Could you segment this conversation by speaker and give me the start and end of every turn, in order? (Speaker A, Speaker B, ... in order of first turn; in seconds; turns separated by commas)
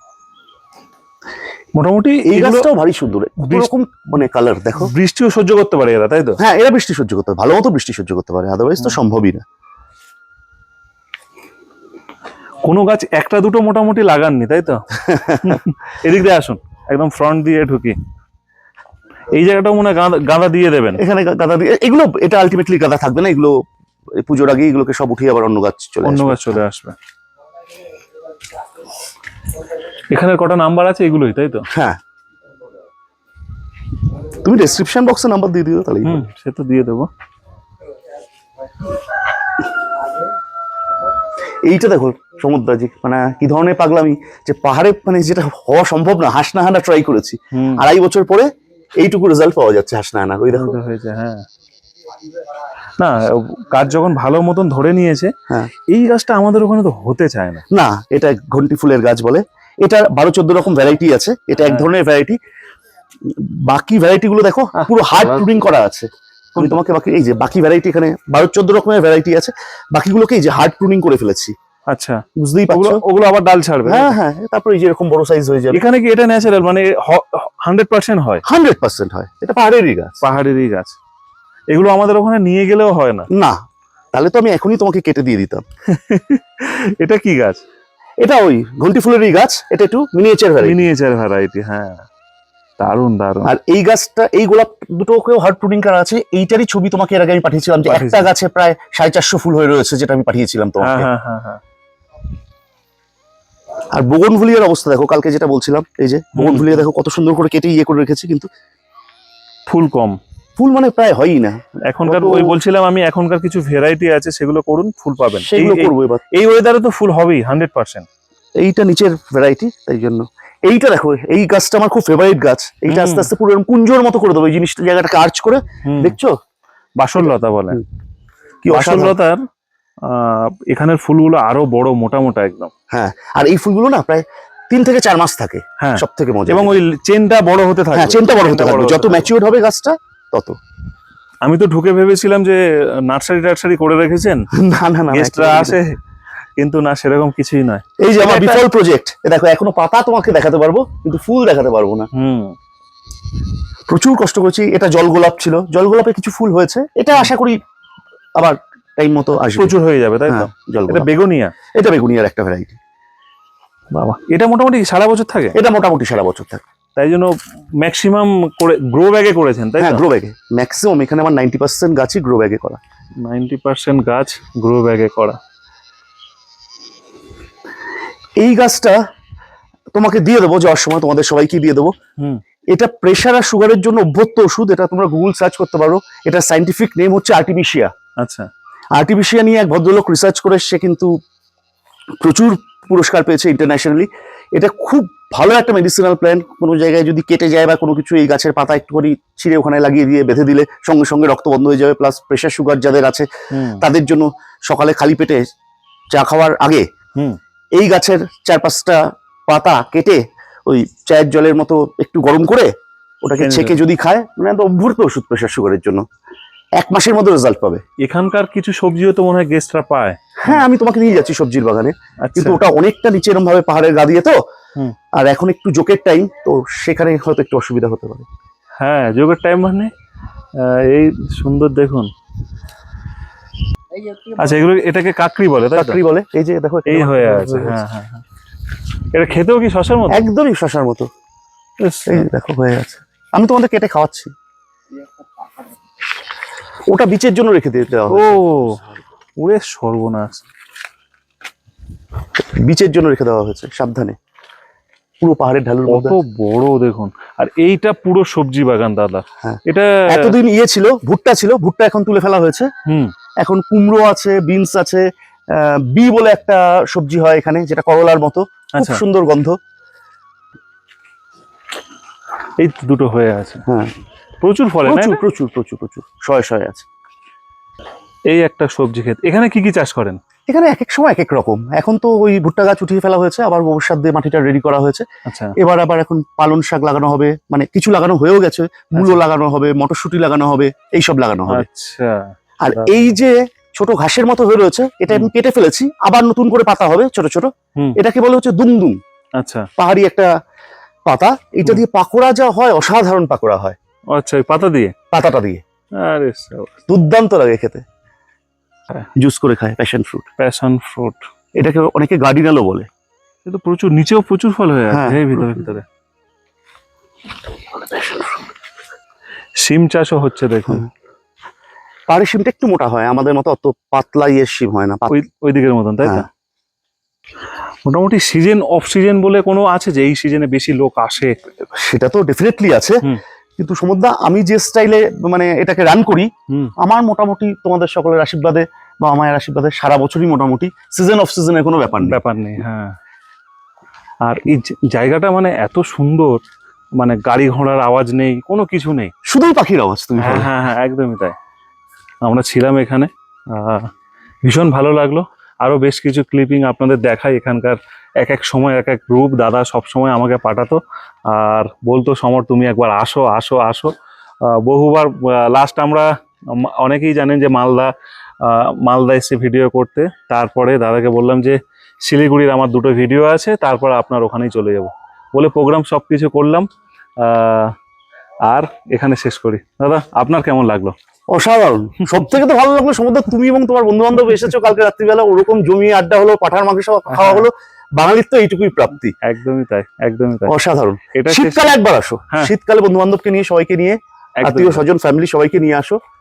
Speaker A: 1.8-2.7, Speaker B: 2.2-4.9, Speaker A: 3.4-3.7, Speaker A: 4.8-6.4, Speaker B: 6.4-9.4, Speaker A: 12.6-14.8, Speaker B: 15.0-15.6, Speaker A: 15.4-18.0, Speaker A: 19.3-21.0, Speaker B: 21.0-23.6, Speaker B: 24.2-26.6, Speaker A: 26.0-26.9, Speaker A: 30.1-31.7, Speaker B: 31.7-32.0, Speaker B: 34.4-36.2, Speaker A: 36.0-37.1, Speaker B: 41.7-50.8, Speaker A: 47.5-47.9, Speaker A: 50.5-51.5, Speaker A: 53.0-55.3, Speaker A: 55.9-57.6, Speaker B: 57.7-62.4, Speaker A: 61.6-61.9, Speaker B: 63.2-71.5, Speaker A: 64.8-65.5, Speaker A: 66.6-66.8, Speaker A: 71.9-74.2, Speaker B: 72.4-73.0, Speaker B: 73.8-75.8, Speaker A: 75.7-78.4, Speaker B: 78.5-80.2, Speaker A: 80.2-81.0, Speaker A: 81.7-83.3, Speaker B: 83.3-83.6, Speaker B: 84.1-85.6, Speaker A: 85.9-87.6, Speaker B: 88.2-90.8, Speaker A: 90.6-92.1, Speaker A: 92.8-93.5, Speaker B: 93.5-101.1, Speaker A: 97.9-98.3, Speaker A: 100.8-101.6, Speaker B: 103.9-108.5, Speaker A: 106.4-106.8, Speaker A: 109.7-110.2, Speaker B: 110.6-112.6, Speaker A: 111.9-118.1, Speaker B: 115.5-116.2, Speaker B: 118.6-126.4, Speaker A: 122.9-123.3, Speaker A: 125.9-126.2, Speaker A: 127.0-127.8, Speaker B: 127.2-127.8, Speaker B: 128.6-129.2, Speaker A: 128.7-129.4, Speaker A: 130.0-132.7, Speaker B: 132.9-136.8, Speaker A: 135.8-139.3, Speaker B: 137.9-140.6, Speaker A: 141.4-144.5, Speaker B: 144.5-145.8, Speaker A: 145.1-146.0, Speaker A: 146.6-148.7, Speaker B: 148.0-152.1, Speaker A: 152.1-152.6, Speaker B: 153.9-157.6, Speaker B: 158.4-159.8, Speaker A: 159.5-161.5, Speaker B: 160.3-161.1, Speaker B: 161.8-162.8, Speaker A: 163.9-165.6, Speaker B: 165.6-166.6, Speaker A: 167.0-170.0, Speaker B: 169.8-172.8, Speaker A: 173.2-175.4, Speaker B: 178.4-179.0, Speaker B: 179.9-181.9, Speaker B: 182.7-187.9, Speaker A: 188.2-188.5, Speaker B: 189.0-191.1, Speaker B: 192.2-203.3, Speaker A: 203.5-203.8, Speaker B: 203.8-205.5, Speaker B: 206.1-206.9, Speaker B: 207.8-216.0, Speaker A: 213.4-213.8, Speaker B: 216.8-217.8, Speaker A: 218.0-220.7, Speaker B: 220.4-224.4, Speaker A: 222.2-222.6, Speaker B: 225.2-228.3, Speaker A: 228.8-229.9, Speaker A: 230.6-232.1, Speaker A: 234.4-236.0, Speaker B: 235.7-237.8, Speaker A: 236.9-238.2, Speaker A: 239.1-240.2, Speaker B: 240.1-241.1, Speaker A: 241.8-242.3, Speaker B: 242.1-244.3, Speaker B: 246.9-248.4, Speaker A: 248.1-248.8, Speaker A: 249.4-250.4, Speaker B: 252.4-254.2, Speaker B: 255.2-256.2, Speaker A: 255.9-260.4, Speaker B: 259.4-262.7, Speaker A: 262.9-263.1, Speaker B: 263.4-269.6, Speaker A: 268.8-269.0, Speaker A: 272.6-273.6, Speaker B: 273.7-273.9, Speaker A: 274.4-275.2, Speaker B: 274.9-276.9, Speaker A: 278.3-280.2, Speaker B: 280.5-291.7, Speaker A: 285.3-285.6, Speaker A: 289.0-289.2, Speaker A: 291.5-293.1, Speaker B: 292.6-299.0, Speaker A: 299.4-299.7, Speaker B: 299.8-300.3, Speaker B: 301.1-303.8, Speaker A: 304.1-304.9, Speaker B: 305.1-305.6, Speaker A: 306.0-306.8, Speaker B: 306.9-307.8, Speaker B: 309.2-310.3, Speaker A: 310.4-311.2, Speaker B: 311.6-312.9, Speaker A: 313.4-315.9, Speaker B: 314.9-315.6, Speaker A: 319.6-320.9, Speaker B: 322.1-325.1, Speaker A: 325.1-326.3, Speaker A: 327.9-331.4, Speaker B: 331.7-333.0, Speaker B: 333.6-342.2, Speaker A: 342.0-343.0, Speaker A: 344.2-346.4, Speaker A: 347.0-349.1, Speaker B: 349.3-350.5, Speaker A: 350.2-351.4, Speaker A: 352.2-353.9, Speaker A: 354.4-363.9, Speaker A: 364.4-377.8, Speaker A: 378.5-380.9, Speaker B: 381.3-389.1, Speaker A: 387.1-387.5, Speaker A: 389.2-390.6, Speaker B: 390.5-396.0, Speaker A: 391.1-391.7, Speaker A: 394.4-394.8